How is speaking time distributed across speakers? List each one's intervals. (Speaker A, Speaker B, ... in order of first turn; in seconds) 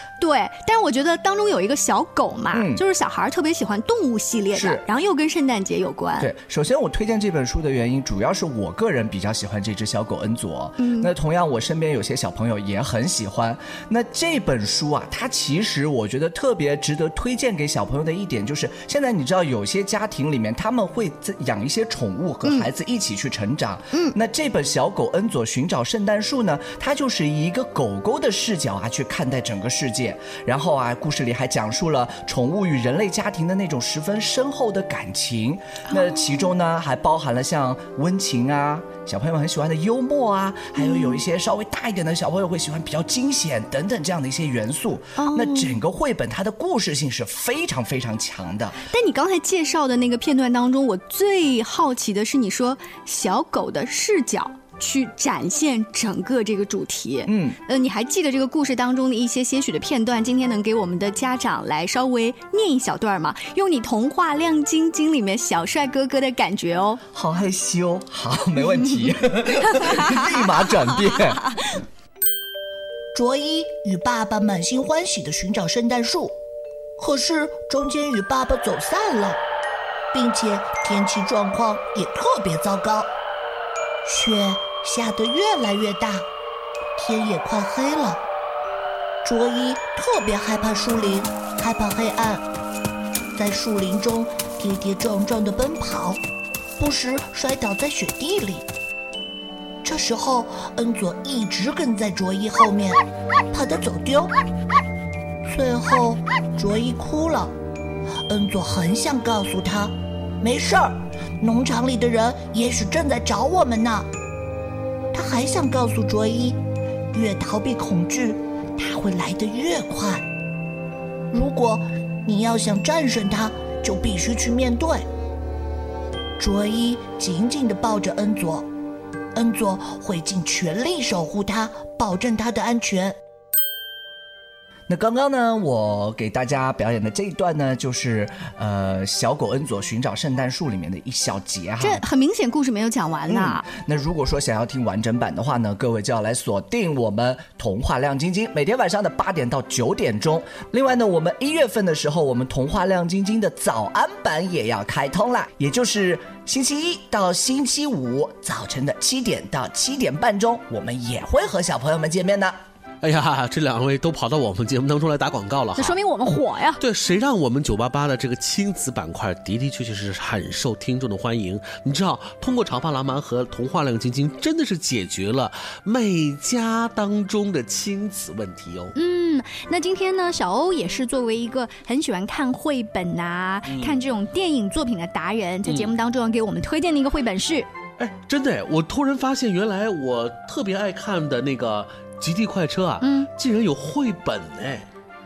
Speaker A: 0.2-6.3, 10.8-11.1, 35.9-36.5, 40.8-41.2, 45.2-45.8, 48.9-67.0, 69.7-70.3, 141.8-143.6, 165.7-166.8, 178.9-187.7, 193.0-193.3
Speaker B: 2.5-2.8, 4.5-4.8, 6.2-48.8, 57.2-57.6, 67.1-71.4, 134.9-142.0, 143.3-162.6
Speaker C: 73.1-76.3, 77.0-79.4, 80.1-83.1, 84.0-86.3, 87.0-88.2, 89.2-92.4, 93.3-96.2, 96.8-98.7, 99.8-103.0, 103.5-104.3, 105.4-107.5, 108.3-114.1, 115.1-116.6, 117.1-120.3, 121.3-125.1, 126.4-128.7, 129.3-133.2
Speaker D: 163.0-165.9, 166.8-178.9, 183.7-184.0, 185.7-185.9, 188.0-194.9